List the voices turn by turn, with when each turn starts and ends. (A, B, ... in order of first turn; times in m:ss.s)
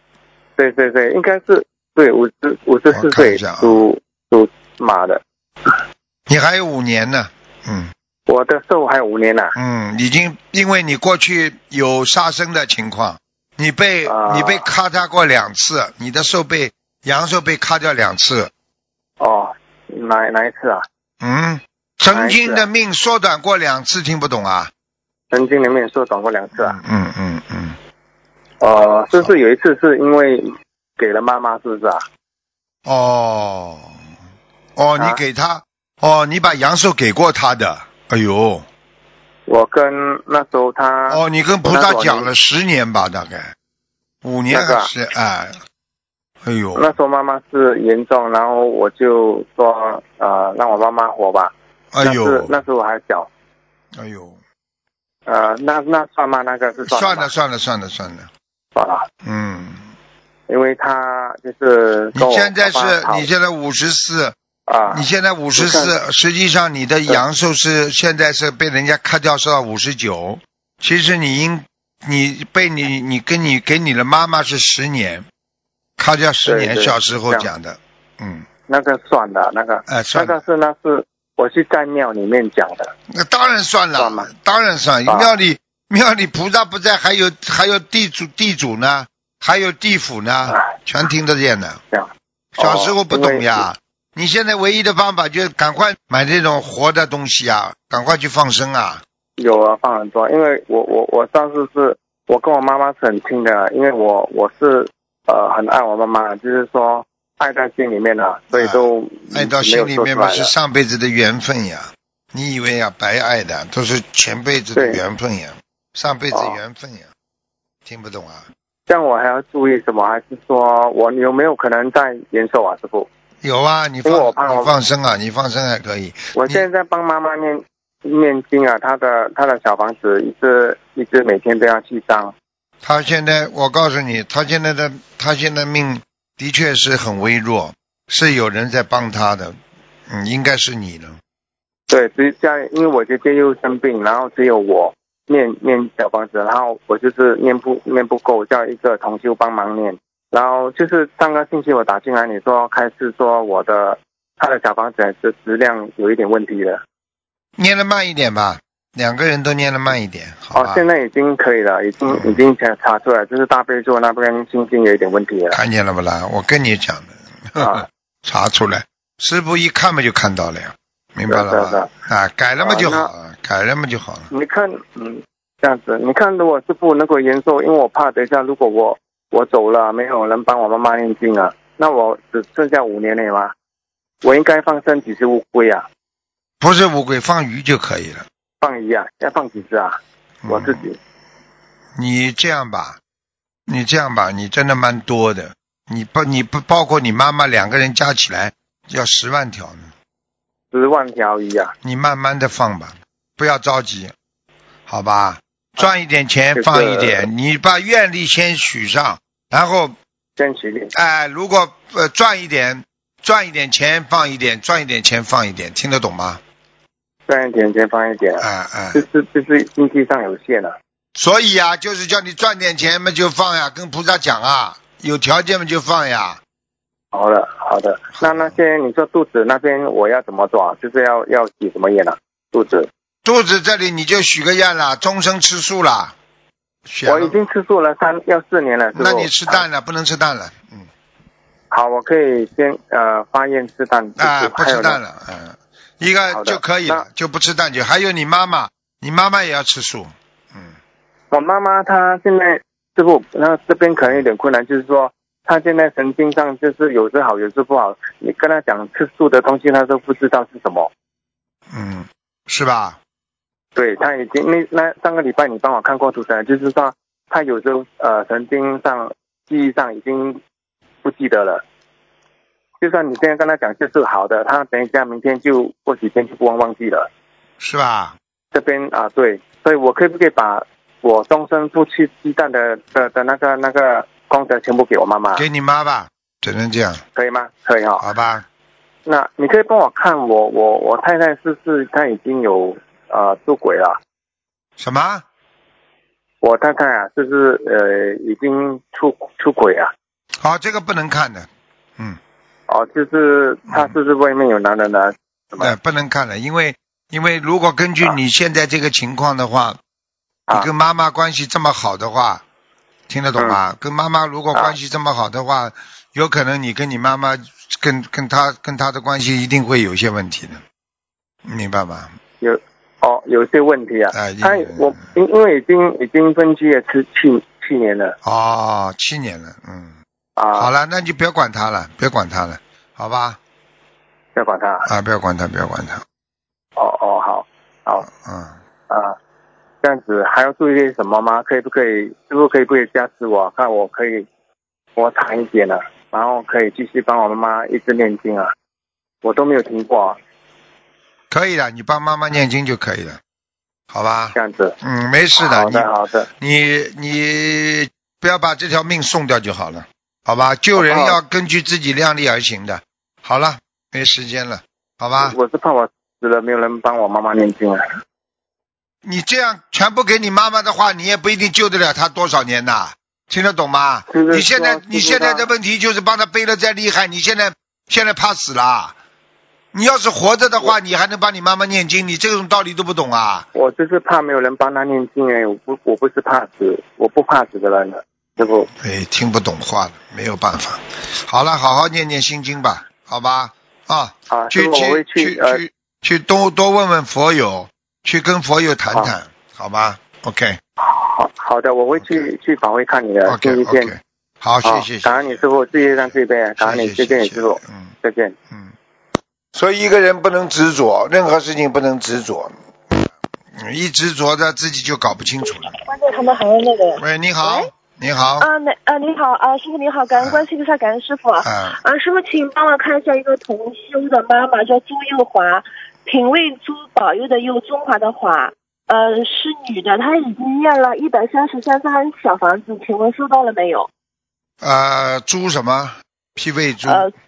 0:00.6-0:05.7 A
0:02.9-0:03.9 B
0:06.3-0:07.9 B
0:08.3-0:09.5 A
0:09.5-0:18.5 B
0:14.0-0:14.7 A
0:19.2-0:20.8 A
0:21.2-0:24.7 B
0:22.1-0:22.7 A
0:25.3-0:26.8 A
0:26.6-0:27.8 B
0:28.6-0:32.0 A
0:32.8-0:33.9 B
0:34.8-0:38.6 B
0:35.0-0:35.2 A
0:39.5-0:42.3 A
0:41.1-0:43.5 B
0:44.2-0:45.6 B
0:44.5-0:44.9 A
0:46.4-0:46.9 B
0:46.7-0:53.3 A
0:51.9-0:52.5 B
0:53.9-0:54.4 B
0:55.2-0:57.3 A
0:56.9-0:58.3 B
0:58.7-0:59.0 A
0:59.2-0:59.8 B
1:00.5-1:03.3 A
1:02.1-1:04.3 B
1:04.7-1:05.9 A
1:04.9-1:15.2 B
1:16.0-1:18.5 B
1:16.4-1:17.5 A
1:18.7-1:22.9 A
1:19.9-1:20.4 B
1:23.1-1:31.8 B
1:23.9-1:24.3 A
1:25.1-1:25.3 A
1:31.9-1:33.7 A
1:32.6-1:39.0 B
1:39.4-1:50.5 A
1:48.5-1:57.1 B
1:54.7-1:55.0 A
1:56.3-1:56.6 A
1:57.8-1:58.5 B
1:58.9-2:03.1 A
2:03.4-2:06.6 B
2:04.0-2:04.7 A
2:06.4-2:12.3 A
2:12.8-2:19.6 B
2:20.1-2:21.2 B
2:21.9-2:36.8 A
2:37.6-2:40.8 B
2:40.5-2:45.6 A
2:42.1-2:42.4 B
2:45.5-2:54.3 B
2:47.6-2:47.8 A
2:51.3-2:51.9 A
2:52.6-2:53.1 A
2:54.3-3:03.5 A
3:04.2-3:05.8 A
3:06.6-3:08.2 B
3:08.6-3:10.0 A
3:10.4-3:10.8 B
3:10.5-3:11.0 A
3:12.0-3:13.0 B
3:13.7-3:19.9 B
3:20.7-3:21.7 A
3:21.8-3:24.1 B
3:24.9-3:30.0 B
3:26.5-3:27.3 A
3:30.4-3:30.9 A
3:30.9-3:36.4 B
3:37.3-3:40.7 A
3:38.4-3:39.0 B
3:41.2-3:46.4 B
3:47.1-3:52.9 A
3:48.2-3:48.5 B
3:53.2-3:56.1 B
3:56.8-3:57.4 B
3:57.0-3:59.7 A
3:58.9-4:00.9 B
4:01.7-4:05.0 A
4:04.2-4:10.7 B
4:06.3-4:07.0 A
4:11.3-4:20.9 A
4:21.7-4:23.0 B
4:23.7-4:30.4 A
4:31.0-4:31.6 A
4:32.8-4:37.1 A
4:37.6-4:38.1 B
4:38.5-4:45.4 A
4:45.3-4:47.0 B
4:47.1-4:48.0 A
4:48.0-4:48.4 B
4:49.0-4:54.0 A
4:54.8-4:55.2 B
4:56.4-4:59.9 A
5:00.4-5:02.2 B
5:02.7-5:05.7 A
5:05.6-5:09.8 B
5:10.5-5:12.4 B
5:13.1-5:20.6 B
5:21.4-5:22.1 B
5:22.4-5:28.1 A
5:24.1-5:25.0 B
5:28.2-5:29.9 B
5:30.4-5:30.7 A
5:30.5-5:33.4 B
5:34.4-5:34.8 A
5:34.8-5:36.0 B
5:36.8-5:38.1 A
5:38.2-5:38.6 B
5:38.9-5:39.1 A
5:39.8-5:44.3 A
5:45.0-5:48.5 A
5:49.2-5:50.2 A
5:51.3-5:53.2 B
5:53.9-5:55.9 B
5:54.3-5:54.8 A
5:55.4-5:56.3 A
5:56.4-6:05.4 B
6:00.8-6:01.2 A
6:05.2-6:07.8 A
6:09.0-6:18.9 B
6:14.1-6:15.5 A
6:19.7-6:23.4 B
6:23.5-6:28.7 A
6:28.8-6:40.6 B
6:34.3-6:35.6 A
6:40.8-6:43.9 A
6:42.0-6:42.3 B
6:43.3-6:45.4 B
6:44.6-6:48.3 A
6:46.6-6:47.9 B
6:49.5-6:52.5 B
6:53.5-6:55.7 B
6:55.9-6:57.7 C
6:57.0-6:58.5 B
6:58.4-7:13.9 C
7:00.2-7:00.5 B
7:01.4-7:01.7 B
7:14.6-7:17.1 B
7:16.8-7:17.1 C